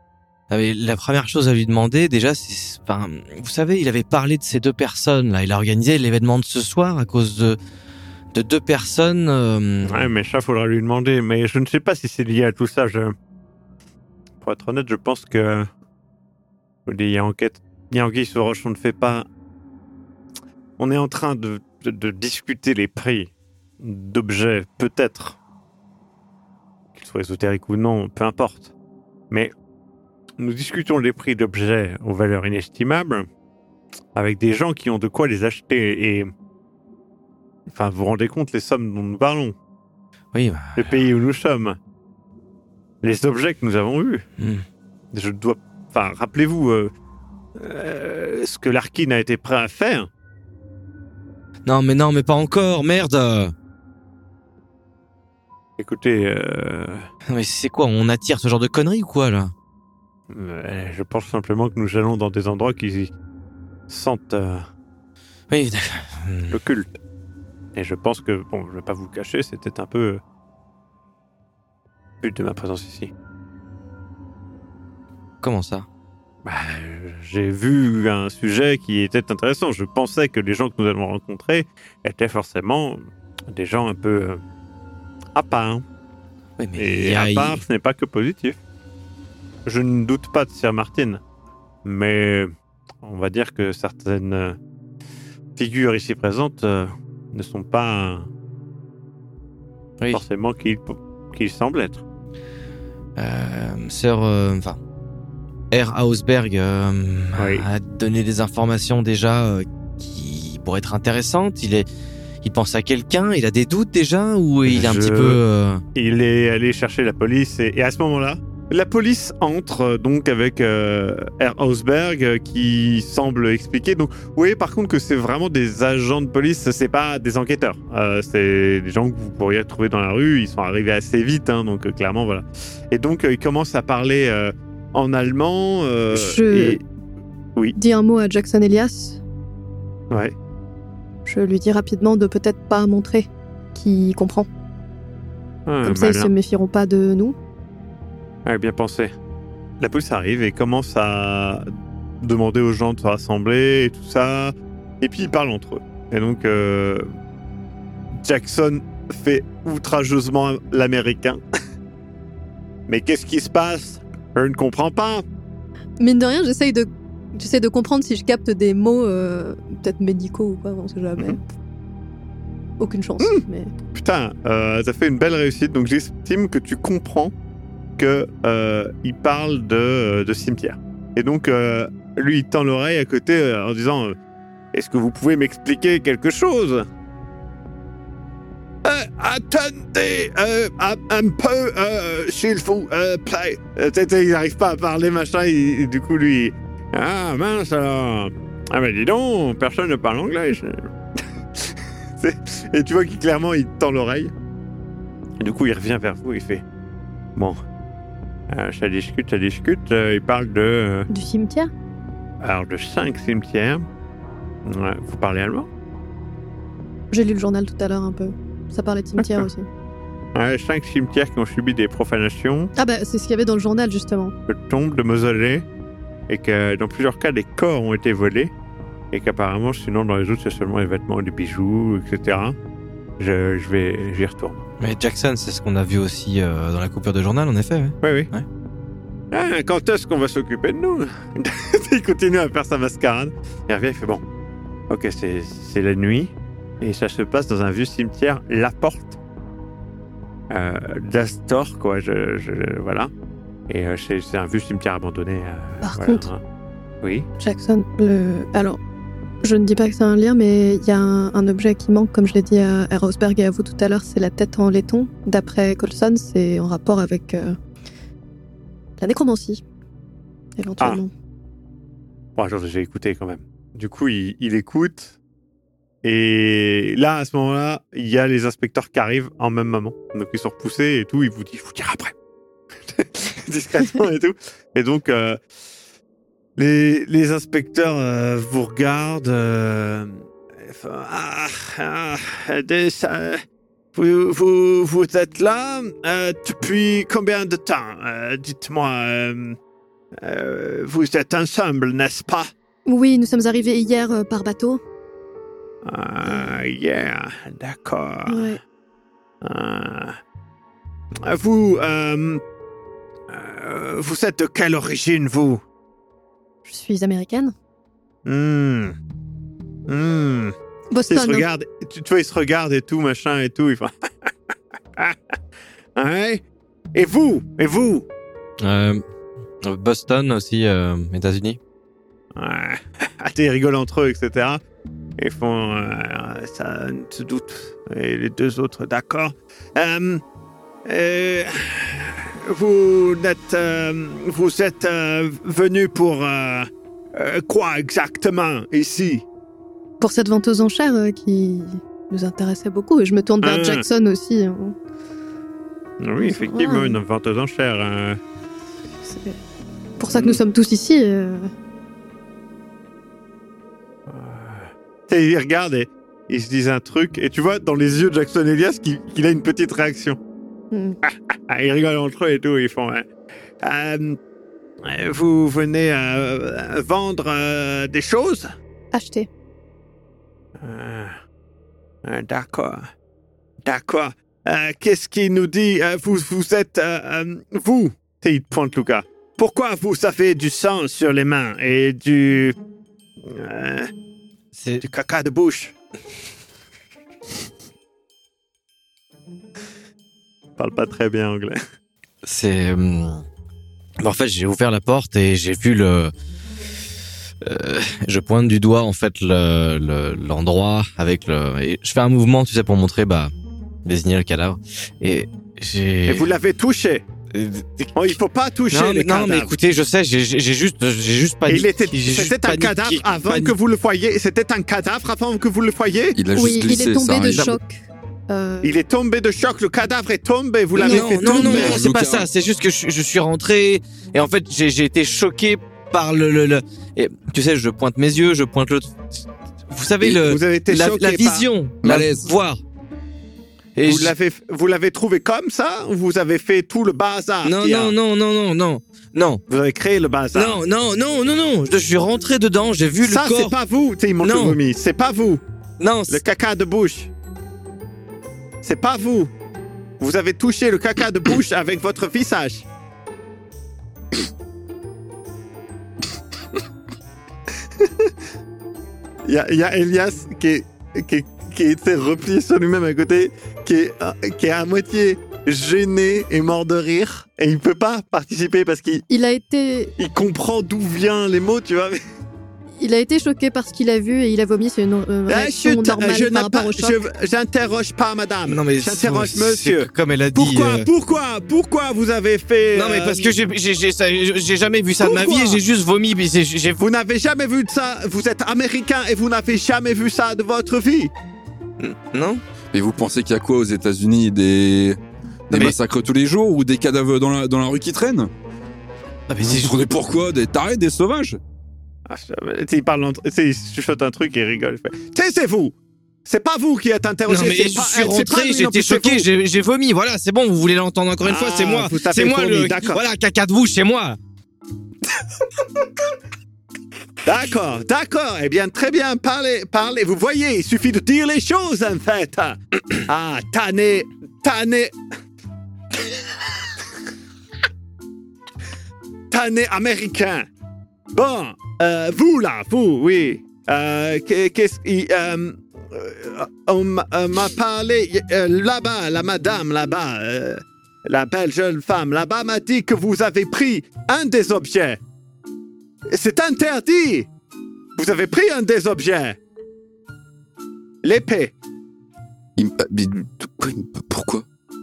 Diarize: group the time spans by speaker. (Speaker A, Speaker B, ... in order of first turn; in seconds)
Speaker A: 0.5-7.6, 8.3-10.1, 40.3-41.1, 44.4-44.6, 51.7-53.5, 57.3-59.5, 65.5-66.5, 75.4-75.9, 86.6-87.6, 103.2-104.8, 105.7-111.9, 112.4-115.8, 234.8-238.5, 328.6-329.0, 329.6-331.6, 394.6-394.8, 402.2-403.2, 404.0-406.1, 407.4-413.3, 413.9-416.3, 417.3-418.2, 418.7-423.6, 430.8-442.6, 443.8-444.1, 447.4-449.4, 450.3-453.6, 454.2-454.6, 455.8-456.2, 488.5-490.9, 492.7-496.8, 501.8-502.4, 509.3-509.8, 517.3-524.2
Speaker B: 9.9-13.2, 14.4-15.7, 16.9-19.3, 20.8-25.4, 26.9-28.7, 30.4-33.3, 34.1-36.3, 37.7-39.5, 40.8-41.8, 43.0-44.2, 45.1-46.9, 47.6-50.1, 55.8-57.1, 60.3-63.1, 63.9-64.7, 66.5-67.0, 67.8-70.2, 72.2-73.1, 76.5-84.4, 85.3-85.8, 86.8-88.6, 89.7-91.2, 91.8-94.6, 95.6-98.3, 100.1-102.0, 107.4-107.7, 114.7-115.4, 115.9-136.8, 140.1-140.3, 145.7-146.3, 148.4-149.1, 149.8-151.7, 152.2-157.1, 158.2-161.4, 162.9-165.2, 173.9-177.3, 178.0-184.2, 184.7-186.9, 188.8-200.9, 202.2-204.3, 205.4-206.6, 208.5-211.1, 212.4-213.8, 214.7-215.7, 219.2-219.5, 220.3-222.7, 224.5-225.7, 226.3-228.5, 229.1-232.6, 233.2-234.6, 238.0-238.3, 239.3-244.2, 244.9-249.2, 250.5-253.1, 253.7-256.4, 257.0-257.3, 272.4-275.2, 276.0-282.1, 283.0-285.4, 286.6-293.4, 293.9-299.6, 300.2-302.5, 305.8-308.6, 309.4-310.2, 311.2-312.4, 313.3-315.6, 318.2-318.9, 319.9-320.6, 321.1-324.3, 325.9-326.4, 326.9-328.1, 332.4-334.6, 335.2-340.2, 340.9-349.2, 353.4-353.9, 356.0-358.2, 360.1-360.4, 364.1-370.2, 371.0-373.1, 373.6-374.2, 374.8-378.5, 380.6-381.1, 382.1-382.9, 383.6-392.6, 393.2-393.9, 394.8-395.8, 400.6-401.6, 416.1-417.1, 417.9-419.5, 421.5-426.2, 428.6-431.8, 440.1-441.5, 443.8-447.9, 449.5-450.6, 453.0-455.4, 456.1-457.1, 458.6-459.3, 460.0-462.7, 469.3-479.1, 480.0-482.0, 485.3-493.4, 495.0-495.6, 496.8-501.1, 512.1-515.8, 516.3-519.3, 521.2-523.0, 527.2-534.9, 539.3-540.5, 541.1-555.0, 556.1-557.3, 558.0-559.4, 561.0-561.5
Speaker C: 136.1-136.8, 137.8-139.2, 141.3-144.5, 145.8-147.4, 166.0-171.4, 172.8-173.7, 211.1-211.7, 217.1-219.7, 222.8-224.3, 255.8-256.3, 257.4-258.8, 259.4-267.6, 269.0-269.6, 270.6-271.1, 302.9-304.8, 308.3-308.6, 316.7-317.5, 320.9-321.5, 350.0-354.8, 356.2-357.0, 359.0-359.4, 360.0-361.5, 370.7-371.0, 378.9-379.3, 426.4-428.7, 430.8-431.7, 479.1-479.9, 482.8-487.1
Speaker D: 426.1-427.6, 431.2-432.3, 441.8-442.3, 502.7-508.3, 509.4-511.4, 562.6-564.5